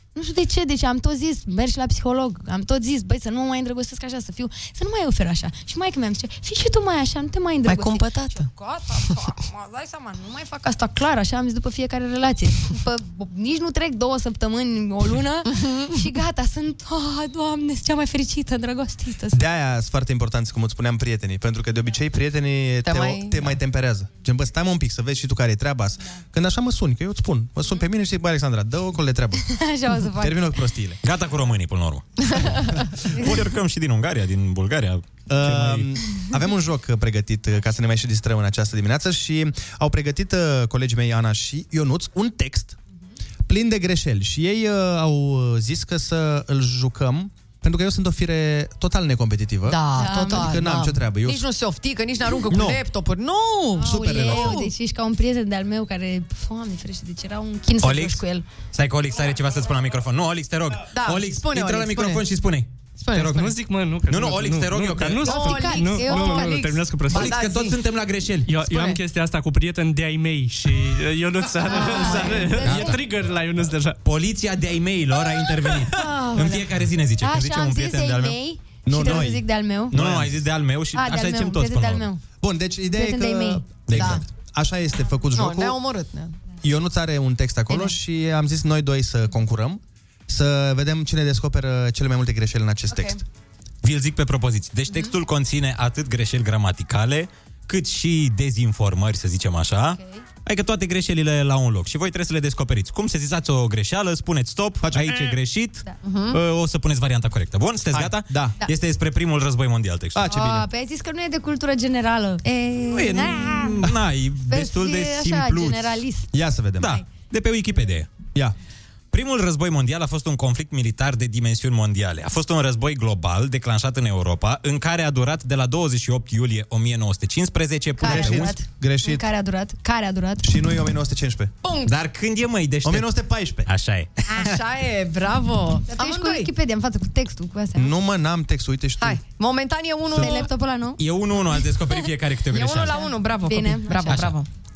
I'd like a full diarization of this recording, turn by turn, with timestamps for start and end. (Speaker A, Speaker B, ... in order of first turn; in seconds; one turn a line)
Speaker A: 0.1-19.4
Speaker B: 7.7-8.5
Speaker C: 19.3-29.5
Speaker B: 22.8-23.6
Speaker A: 29.4-30.6
Speaker C: 30.1-31.0
Speaker D: 31.0-35.9
Speaker A: 33.1-33.4
Speaker C: 35.3-42.8
Speaker C: 43.5-51.4
Speaker B: 49.6-54.6
Speaker A: 49.9-50.6
Speaker C: 52.5-52.8
Speaker A: 53.8-58.5
Speaker C: 53.8-54.6
Speaker D: 57.8-65.7
Speaker B: 60.9-62.2
Speaker B: 63.0-63.5
Speaker E: 63.3-67.4
Speaker B: 65.2-67.8
Speaker A: 65.3-66.6
Speaker D: 67.0-68.5
Speaker E: 68.5-74.0
Speaker B: 68.6-69.0
Speaker B: 71.7-72.5
Speaker A: 71.7-73.0
Speaker D: 71.7-73.0
Speaker D: 74.0-78.4
Speaker B: 75.9-76.7
Speaker A: 77.2-80.0
Speaker C: 78.8-80.3
Speaker D: 79.9-82.1
Speaker A: 80.9-82.2
Speaker C: 82.4-85.8
Speaker A: 82.9-83.7
Speaker D: 83.8-84.2
Speaker B: 83.9-84.2
Speaker B: 85.3-86.3
Speaker C: 86.6-93.2
Speaker A: 92.9-93.2
Speaker D: 93.8-110.5
Speaker A: 99.9-100.2
Speaker C: 104.8-105.4
Speaker B: 106.0-106.4
Speaker C: 107.9-108.6
Speaker C: 110.1-110.6
Speaker A: 110.3-113.8
Speaker D: 112.9-116.0
Speaker A: 114.5-116.3
Speaker C: 116.3-117.0
Speaker D: 116.8-118.1
Speaker D: 119.1-128.6
Speaker A: 128.0-130.5
Speaker C: 128.0-129.2
Speaker C: 130.4-131.5
Speaker B: 131.6-131.9
Speaker D: 131.8-133.1
Speaker C: 132.8-133.7
Speaker D: 133.7-134.6
Speaker B: 134.3-136.5
Speaker A: 135.9-137.9
Speaker C: 137.8-139.2
Speaker B: 139.0-140.5
Speaker A: 140.2-141.0
Speaker D: 141.0-143.0
Speaker A: 141.6-142.1
Speaker B: 142.5-144.5
Speaker A: 143.0-144.2
Speaker D: 144.1-144.4